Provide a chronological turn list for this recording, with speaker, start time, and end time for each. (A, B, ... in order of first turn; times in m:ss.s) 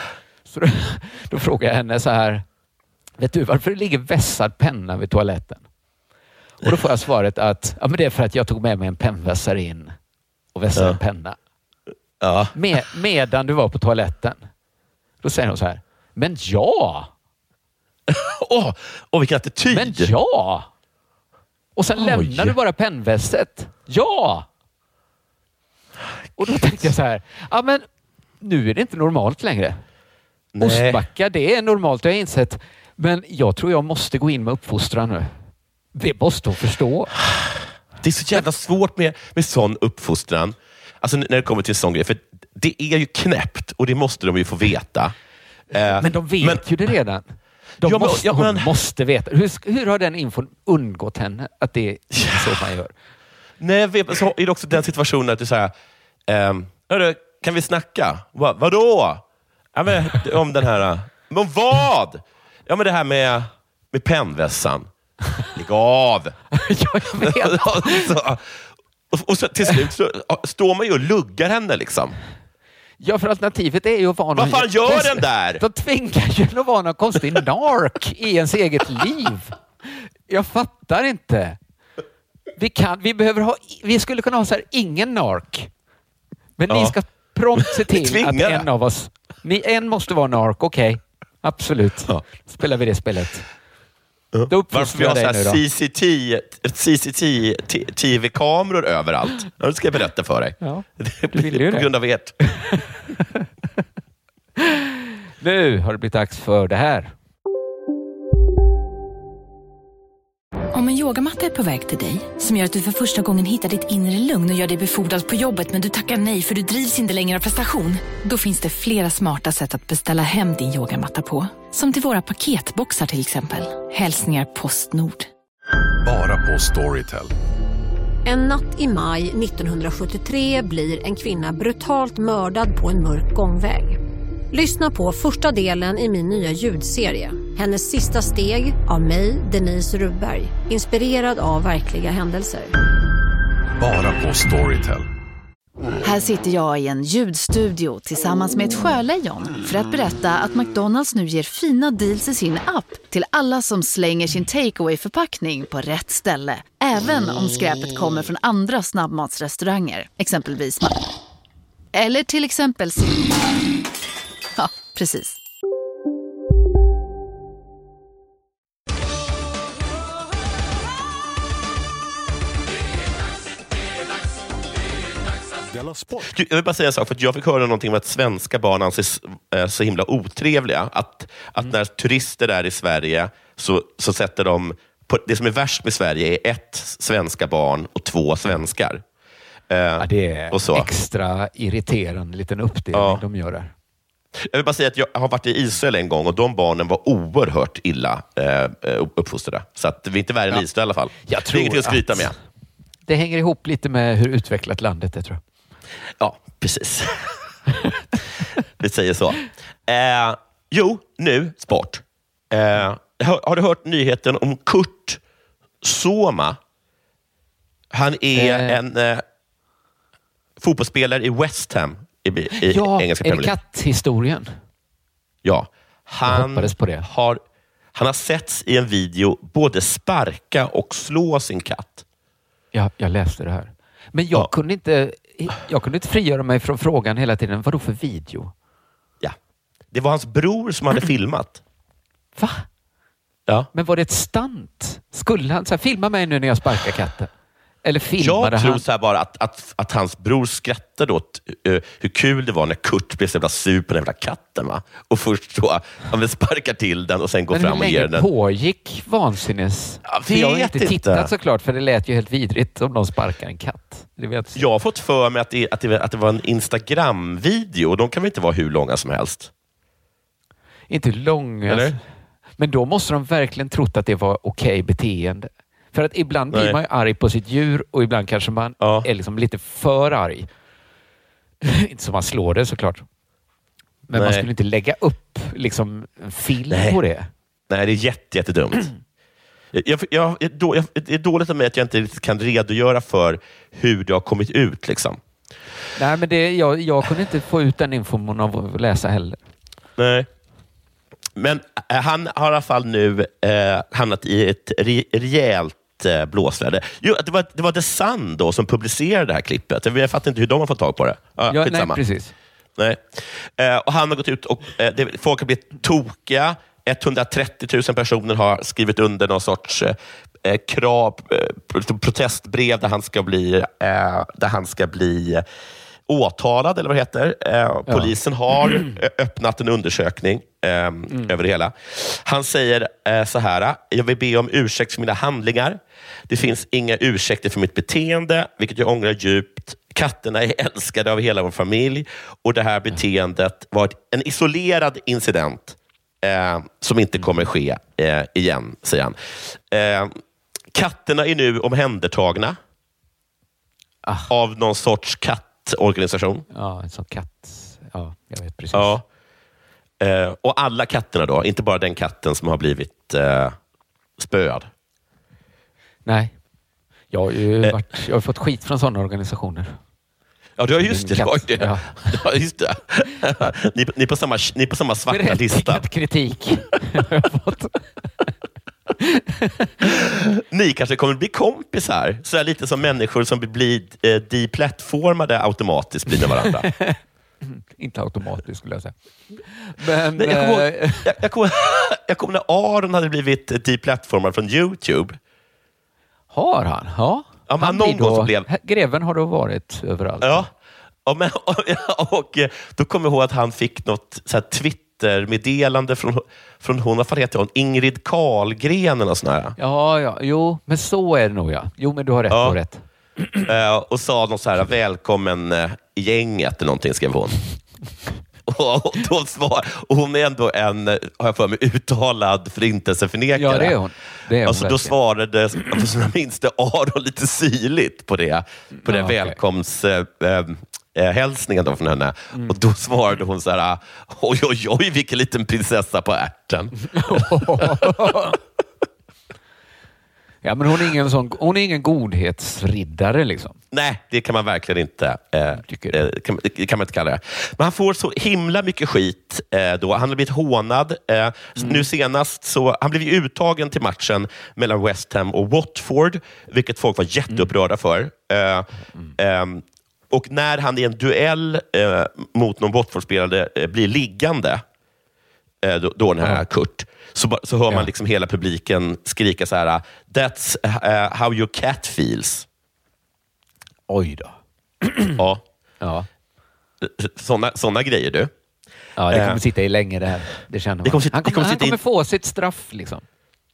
0:00.5-0:02.4 A
0:03.2-0:05.6 A
0:06.6-0:09.9 A
0:10.5-0:11.4 A
0:12.2-0:12.6 B
0:12.5-0:14.4 A
0:15.2-0:17.1 A
0:18.1-0:20.1 B
0:19.7-0:20.7 A
0:21.8-0:24.5 A
0:22.0-0:22.5 B
0:26.4-0:26.9 B
0:26.4-0:27.8 A
0:28.4-0:29.8 A
0:30.5-0:31.0 B
0:30.6-0:35.3 A
0:35.9-0:37.1 A
0:38.0-0:45.1 B
0:45.7-0:46.6 B
0:45.9-0:52.9 A
0:47.8-0:48.7 B
0:53.6-0:55.7 B
0:56.3-0:59.2 B
0:59.7-1:04.9 B
1:05.5-1:06.4 B
1:06.5-1:08.1 A
1:07.2-1:12.2 B
1:13.0-1:19.5 A
1:14.3-1:15.6 B
1:20.3-1:21.6 A
1:22.6-1:25.7 A
1:26.6-1:33.5 A
1:26.7-1:27.0 B
1:27.6-1:28.7 B
1:34.3-1:42.3 B
1:34.5-1:35.6 A
1:40.6-1:41.9 A
1:42.6-1:43.4 A
1:45.4-1:47.1 A
1:50.7-2:05.3 C
2:06.0-2:07.3 D
2:08.2-2:14.0 E
2:14.5-2:22.7 E
2:23.8-2:25.1 D
2:26.0-2:41.0 F
2:41.9-2:43.3 F
2:44.6-2:45.4 F
2:56.1-3:09.0 B
3:09.7-3:10.9 B
3:10.0-3:13.7 A
3:12.9-3:13.2 B
3:14.4-3:22.3 B
3:21.2-3:22.3 A
3:23.1-3:25.4 A
3:26.2-3:27.4 B
3:28.8-3:35.2 B
3:35.8-3:36.6 B
3:37.9-3:39.2 B
3:38.3-3:38.8 A
3:40.6-3:43.5 B
3:42.5-3:44.5 A
3:45.4-3:47.4 B
3:46.2-3:47.1 A
3:47.9-3:52.0 B
3:52.7-3:58.5 A
3:59.9-4:01.6 B
4:02.4-4:02.6 A
4:03.7-4:07.3 A
4:07.8-4:08.8 A
4:08.2-4:18.3 B
4:17.5-4:24.6 A
4:20.0-4:21.3 B
4:24.5-4:29.5 B
4:30.9-4:32.0 A
4:31.7-4:32.0 B
4:32.6-4:40.5 A
4:36.5-4:36.8 B
4:38.8-4:39.1 B
4:41.6-4:43.0 A
4:44.1-4:47.3 A
4:44.1-4:44.5 B
4:46.7-4:47.0 B
4:47.7-4:48.9 B
4:49.7-4:55.2 B
4:56.0-4:59.4 A
5:00.0-5:00.3 B
5:01.4-5:12.0 B
5:11.5-5:12.3 A
5:12.8-5:25.4 B
5:26.1-5:50.1 B
5:27.9-5:28.1 A
5:50.7-5:52.6 B
5:54.0-5:54.3 A
5:54.3-5:56.4 B
5:56.5-5:58.9 A
5:58.7-5:59.0 B
6:00.0-6:03.6 B
6:04.2-6:04.7 B
6:06.0-6:06.3 A
6:07.1-6:09.8 A
6:10.6-6:15.8 B
6:10.8-6:12.2 A
6:15.1-6:18.3 A
6:19.0-6:19.7 A
6:19.9-6:26.6 B
6:26.4-6:28.9 A
6:29.5-6:31.1 A
6:30.1-6:35.2 B
6:36.3-6:40.5 A
6:37.5-6:38.5 B
6:40.2-6:40.5 B
6:41.0-6:49.6 B
6:49.6-6:52.8 A
6:52.3-6:52.6 B
6:53.4-6:57.4 B
6:58.4-7:03.8 B
7:03.3-7:04.9 A
7:04.4-7:17.9 B
7:08.7-7:09.4 A
7:16.9-7:18.4 A
7:20.4-7:23.6 A
7:23.7-7:44.6 B
7:25.5-7:26.1 A
7:31.6-7:31.9 A
7:45.6-7:52.4 B
7:53.9-7:55.2 A
7:55.2-7:55.4 B
7:55.8-7:56.1 A
7:56.8-7:58.3 B
7:59.0-8:03.0 A
7:59.1-7:59.4 B
8:00.8-8:01.8 B